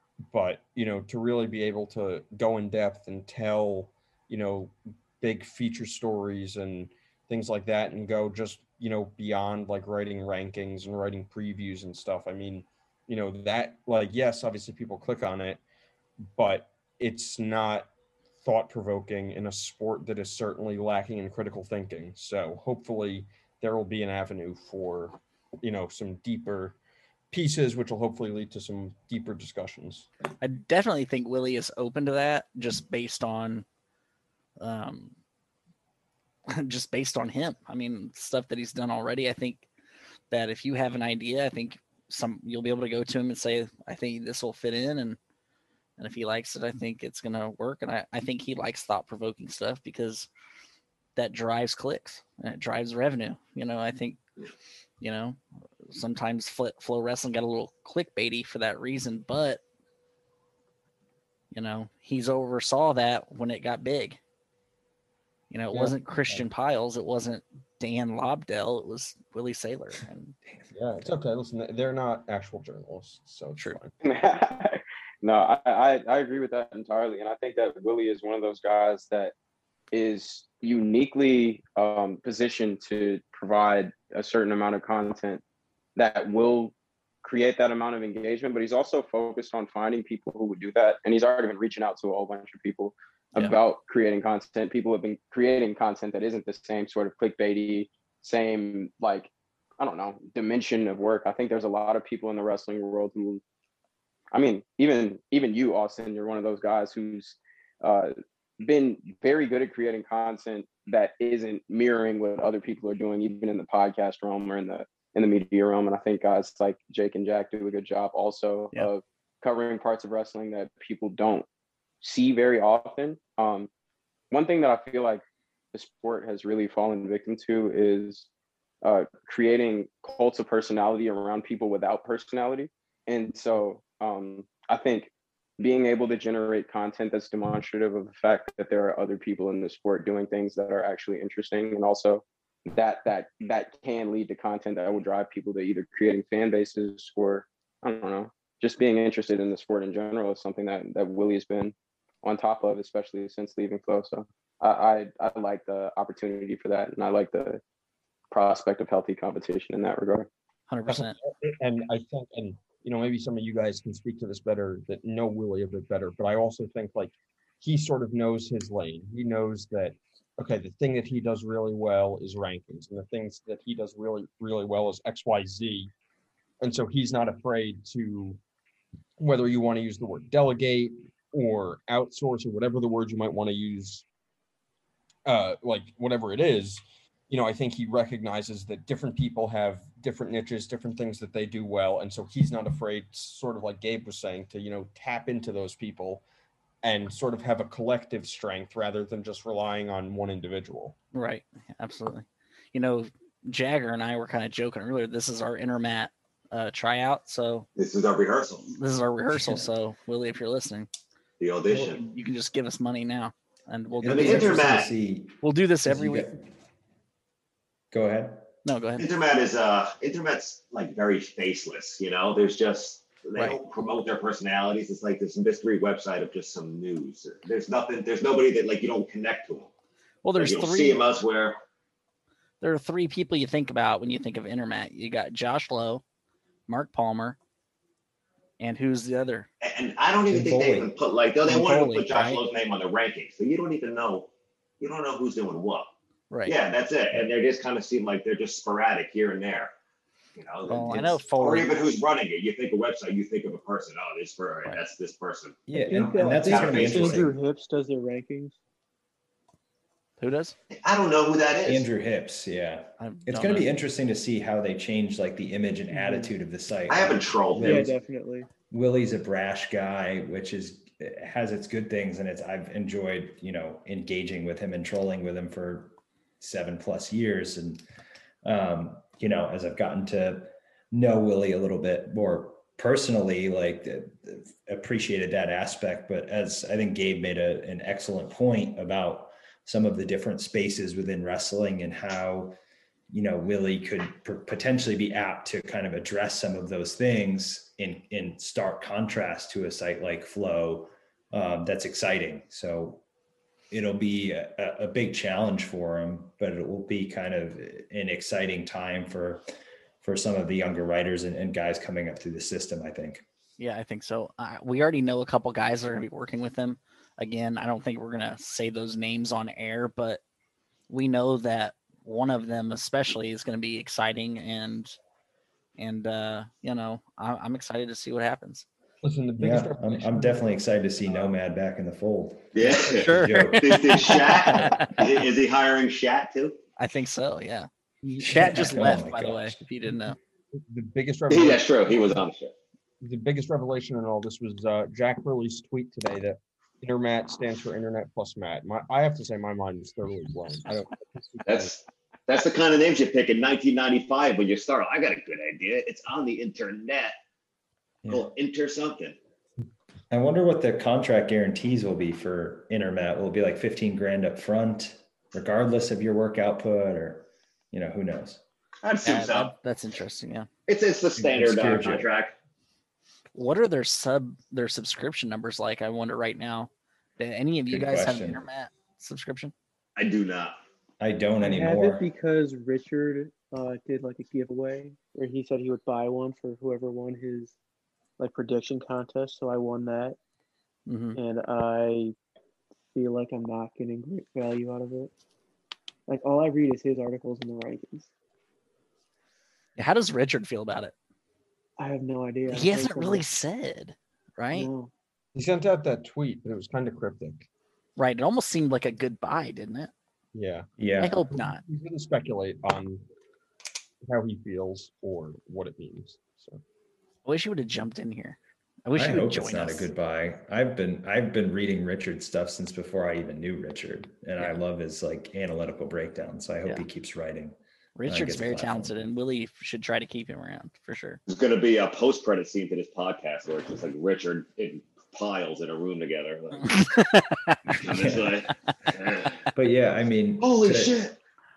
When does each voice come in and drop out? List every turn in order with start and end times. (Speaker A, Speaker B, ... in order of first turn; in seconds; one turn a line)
Speaker A: 0.3-15.6
Speaker A: 16.3-17.9
Speaker A: 18.4-26.8
Speaker A: 27.3-30.1
Speaker B: 30.4-33.6
Speaker B: 34.6-35.1
Speaker B: 36.5-39.6
Speaker B: 40.3-45.2
Speaker B: 46.0-50.3
Speaker B: 51.2-54.2
Speaker B: 55.0-55.4
Speaker B: 55.9-59.6
Speaker B: 61.5-64.2
Speaker B: 65.5-70.3
Speaker A: 70.7-73.9
Speaker C: 74.0-79.3
Speaker C: 79.9-85.4
Speaker C: 86.0-103.4
Speaker C: 104.3-121.5
Speaker C: 122.0-123.7
Speaker C: 124.3-128.3
Speaker C: 128.8-157.6
Speaker C: 158.3-160.3
Speaker B: 160.7-161.2
Speaker A: 160.9-175.9
Speaker A: 176.6-178.4
Speaker A: 179.2-184.1
Speaker A: 185.3-196.2
Speaker A: 196.8-201.0
Speaker B: 201.1-207.7
Speaker D: 207.8-208.7
Speaker B: 208.7-210.9
Speaker D: 211.4-212.0
Speaker B: 211.7-214.7
Speaker D: 214.0-214.9
Speaker E: 214.0-216.4
Speaker B: 215.4-216.3
Speaker E: 217.9-218.5
Speaker B: 218.7-219.1
Speaker D: 219.0-229.7
Speaker B: 230.2-231.1
Speaker D: 230.3-231.6
Speaker B: 232.6-236.0
Speaker B: 236.7-237.4
Speaker B: 238.6-239.5
Speaker D: 239.6-244.3
Speaker E: 240.3-240.9
Speaker B: 241.4-242.4
Speaker D: 244.8-245.9
Speaker D: 246.5-249.7
Speaker D: 250.4-257.3
Speaker B: 250.7-251.7
Speaker E: 255.7-257.3
Speaker F: 255.8-258.6
Speaker B: 260.2-260.6
Speaker D: 260.8-261.9
Speaker E: 261.7-267.9
Speaker B: 263.0-263.7
Speaker F: 265.9-266.3
Speaker D: 266.9-267.9
Speaker F: 267.6-268.5
Speaker E: 268.7-277.8
Speaker E: 278.4-292.6
Speaker E: 293.1-303.0
Speaker E: 303.7-309.4
Speaker E: 310.0-313.2
Speaker B: 313.6-320.2
Speaker B: 320.9-325.0
Speaker B: 325.8-328.7
Speaker A: 329.0-330.5
Speaker E: 329.4-334.9
Speaker D: 332.5-336.6
Speaker B: 332.9-335.0
Speaker B: 336.8-337.7
Speaker A: 338.0-338.8
Speaker E: 338.2-339.5
Speaker B: 338.2-340.2
Speaker A: 340.6-342.2
Speaker D: 341.3-342.5
Speaker A: 343.0-351.7
Speaker D: 351.4-357.1
Speaker D: 358.1-359.2
Speaker E: 360.1-368.4
Speaker D: 368.8-369.5
Speaker B: 369.0-370.5
Speaker D: 370.7-372.3
Speaker E: 371.2-372.1
Speaker B: 373.4-379.5
Speaker E: 377.7-378.4
Speaker D: 380.0-380.6
Speaker E: 381.0-382.1
Speaker F: 381.4-387.6
Speaker F: 388.2-390.2
Speaker B: 390.9-391.2
Speaker F: 391.1-392.1
Speaker F: 392.9-395.1
Speaker F: 396.1-398.1
Speaker B: 399.8-400.9
Speaker F: 401.8-403.2
Speaker B: 402.5-404.7
Speaker F: 404.5-404.9
Speaker A: 405.4-407.5
Speaker B: 408.0-409.9
Speaker A: 410.3-410.7
Speaker E: 410.8-411.2
Speaker B: 411.0-411.6
Speaker A: 411.3-413.0
Speaker A: 414.1-416.6
Speaker B: 417.2-419.9
Speaker E: 418.9-429.0
Speaker B: 428.0-431.2
Speaker D: 431.3-436.8
Speaker B: 436.6-437.6
Speaker D: 437.7-439.5
Speaker E: 437.8-438.3
Speaker E: 439.5-440.9
Speaker D: 440.4-441.1